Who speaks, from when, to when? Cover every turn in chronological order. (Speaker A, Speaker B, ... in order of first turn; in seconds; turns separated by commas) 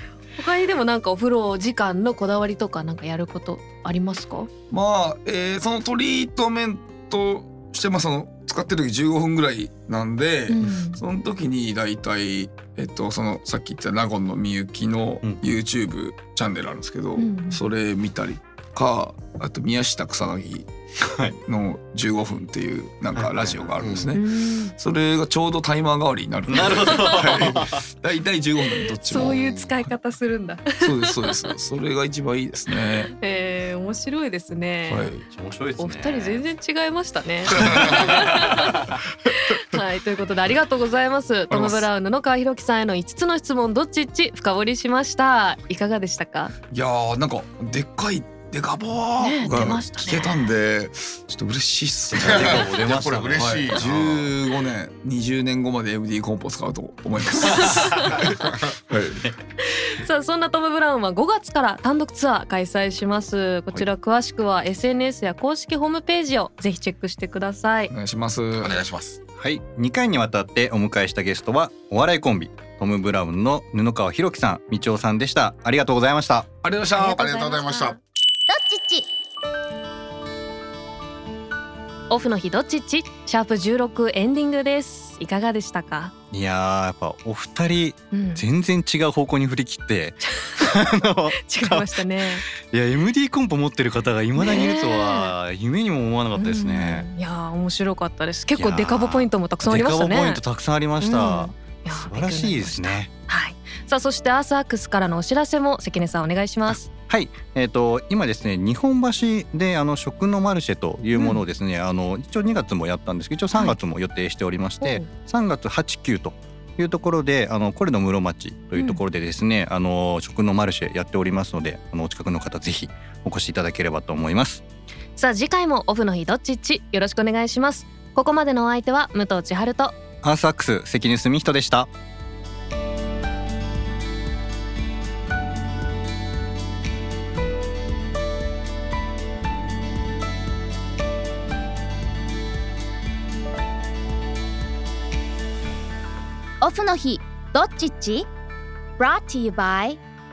Speaker A: 0.4-4.5, Speaker B: 4.7-20.7, Speaker A: 10.5-11.0, Speaker A: 17.1-17.6, Speaker C: 21.0-21.4, Speaker B: 21.4-29.4, Speaker C: 23.1-23.7, Speaker D: 23.8-24.1, Speaker A: 24.1-24.7, Speaker C: 26.5-27.8, Speaker A: 26.7-27.4, Speaker A: 29.0-31.4, Speaker D: 29.1-29.7, Speaker B: 30.8-33.1, Speaker A: 32.8-35.1, Speaker B: 34.9-35.2, Speaker C: 35.3-36.4, Speaker A: 35.8-46.5, Speaker C: 37.5-38.7, Speaker B: 37.5-38.2, Speaker B: 41.5-41.9, Speaker B: 46.7-52.7, Speaker A: 49.2-50.4, Speaker C: 52.1-54.3, Speaker D: 52.1-53.9, Speaker B: 53.3-58.3, Speaker A: 57.4-58.3, Speaker B: 58.9-59.3, Speaker A: 59.7-67.9, Speaker B: 67.9-68.8, Speaker D: 68.6-69.2, Speaker C: 69.4-76.5, Speaker B: 76.6-77.3, Speaker A: 77.0-78.0, Speaker D: 77.2-78.0, Speaker E: 78.5-79.1, Speaker A: 82.1-86.1, Speaker C: 86.3-91.9, Speaker A: 88.1-88.4, Speaker A: 90.3-90.7, Speaker A: 91.4-92.4, Speaker C: 92.6-97.1, Speaker A: 94.4-95.3, Speaker A: 96.4-100.4, Speaker C: 98.5-103.1, Speaker A: 101.0-106.9, Speaker C: 106.7-124.6, Speaker A: 111.1-111.4, Speaker A: 114.8-115.1, Speaker A: 118.7-119.0, Speaker A: 125.2-129.9, Speaker C: 130.2-131.9, Speaker E: 146.6-148.3, Speaker E: 149.0-150.0